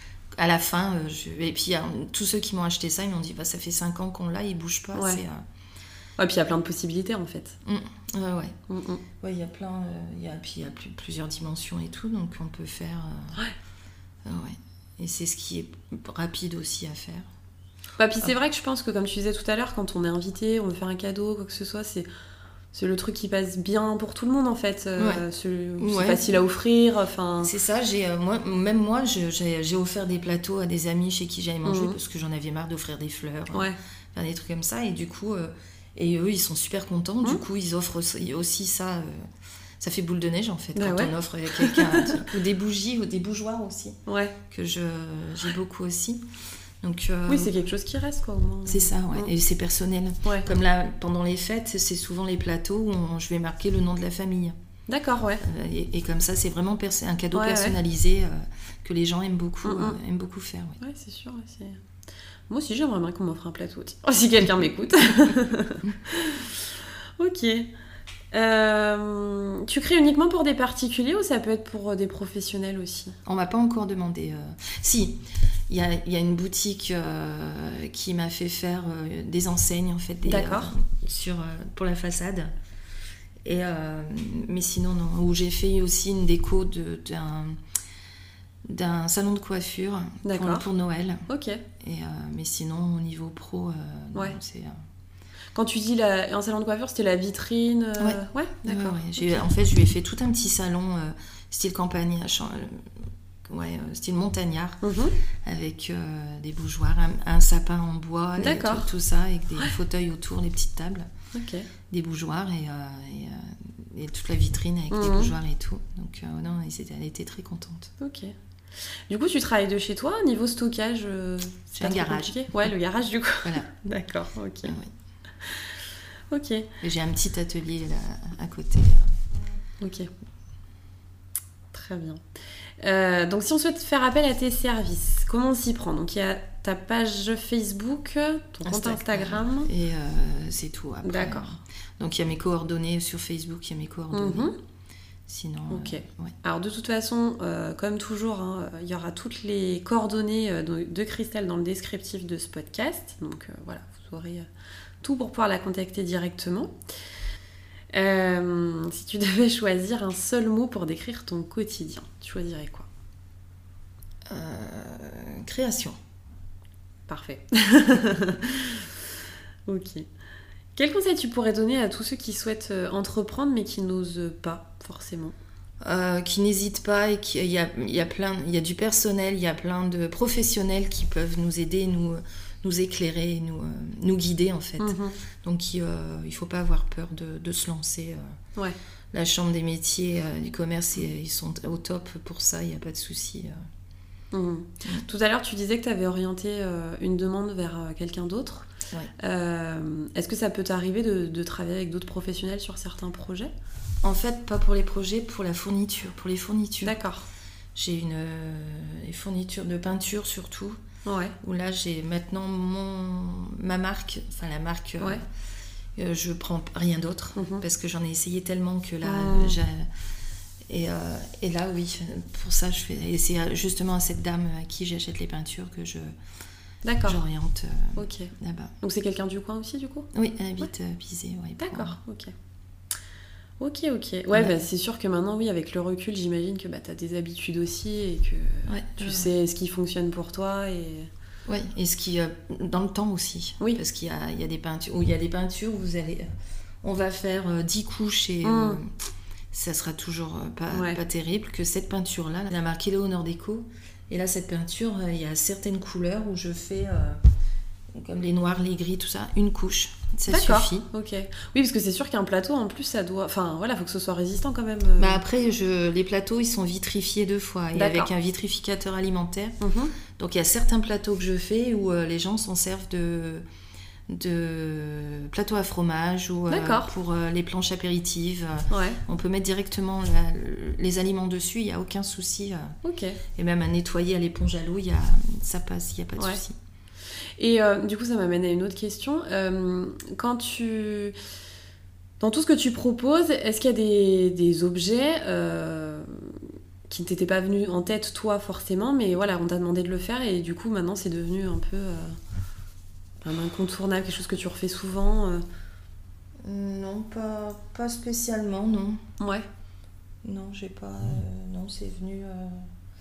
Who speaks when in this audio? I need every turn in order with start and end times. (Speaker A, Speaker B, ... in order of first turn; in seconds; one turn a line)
Speaker A: 0.4-5.4
Speaker B: 5.0-5.2
Speaker B: 6.2-7.6
Speaker A: 7.7-8.5
Speaker B: 8.7-9.0
Speaker A: 9.2-13.4
Speaker A: 14.2-17.3
Speaker B: 18.0-22.1
Speaker B: 22.7-27.5
Speaker A: 25.0-25.2
Speaker A: 25.8-26.4
Speaker A: 27.4-39.2
Speaker B: 31.6-32.0
Speaker A: 39.8-44.0
Speaker B: 40.8-42.2
Speaker B: 44.1-44.4
Speaker A: 44.5-46.2
Speaker A: 46.8-47.5
Speaker B: 47.3-49.3
Speaker A: 48.7-54.5
Speaker B: 54.9-55.4
Speaker A: 55.4-60.8
Speaker B: 57.3-57.8
Speaker B: 59.6-60.0
Speaker B: 60.8-61.8
Speaker B: 62.5-66.7
Speaker B: 67.2-67.7
Speaker B: 68.3-73.2
Speaker A: 73.3-82.5
Speaker B: 80.2-80.7
Speaker A: 83.4-87.5
Speaker A: 88.7-91.2
Speaker B: 90.2-90.7
Speaker B: 91.3-91.6
Speaker A: 91.8-94.7
Speaker B: 95.5-99.4
Speaker A: 98.0-102.9
Speaker A: 103.5-104.8
Speaker B: 104.8-105.2
Speaker A: 105.5-111.1
Speaker B: 108.4-108.9
Speaker B: 111.3-111.7
Speaker A: 111.9-117.9
Speaker B: 114.9-115.3
Speaker B: 118.0-118.3
Speaker B: 119.1-124.8
Speaker A: 121.8-122.5
Speaker A: 123.4-123.7
Speaker A: 124.7-124.9
Speaker B: 126.3-126.7
Speaker A: 126.8-129.1
Speaker B: 129.8-130.1
Speaker B: 131.7-132.2
Speaker B: 132.8-139.7
Speaker A: 138.7-144.5
Speaker B: 141.0-141.6
Speaker B: 144.1-144.6
Speaker A: 145.3-146.3
Speaker B: 145.7-154.5
Speaker B: 155.0-156.7
Speaker B: 157.9-162.9
Speaker A: 164.3-166.0
Speaker B: 167.1-168.9
Speaker B: 169.7-170.1
Speaker B: 170.8-175.4
Speaker A: 175.8-188.2
Speaker B: 184.8-185.2
Speaker A: 189.1-193.5
Speaker B: 194.3-198.7
Speaker B: 199.2-203.5
Speaker A: 204.0-207.0
Speaker B: 206.8-207.3
Speaker A: 207.8-210.8
Speaker B: 211.1-211.3
Speaker A: 211.4-215.2
Speaker A: 216.0-219.9
Speaker B: 217.4-217.6
Speaker B: 219.0-219.6
Speaker A: 220.7-226.1
Speaker B: 226.8-227.2
Speaker A: 227.0-228.7
Speaker B: 228.0-230.1
Speaker A: 230.1-232.0
Speaker B: 231.6-232.3
Speaker B: 233.6-241.1
Speaker A: 234.3-234.6
Speaker A: 238.7-239.3
Speaker A: 241.5-246.3
Speaker A: 246.8-248.9
Speaker B: 248.4-248.8
Speaker A: 249.5-257.2
Speaker B: 250.7-251.0
Speaker A: 258.0-260.9
Speaker B: 260.3-265.2
Speaker A: 265.0-269.6
Speaker B: 267.7-268.1
Speaker B: 269.6-269.9
Speaker A: 270.1-273.4
Speaker A: 274.1-282.8
Speaker B: 276.5-276.9
Speaker B: 278.7-279.0
Speaker B: 282.8-283.2
Speaker A: 283.4-286.6
Speaker B: 287.4-291.1
Speaker B: 292.2-302.2
Speaker B: 303.2-305.4
Speaker A: 306.4-309.0
Speaker B: 309.2-309.5
Speaker A: 310.2-312.7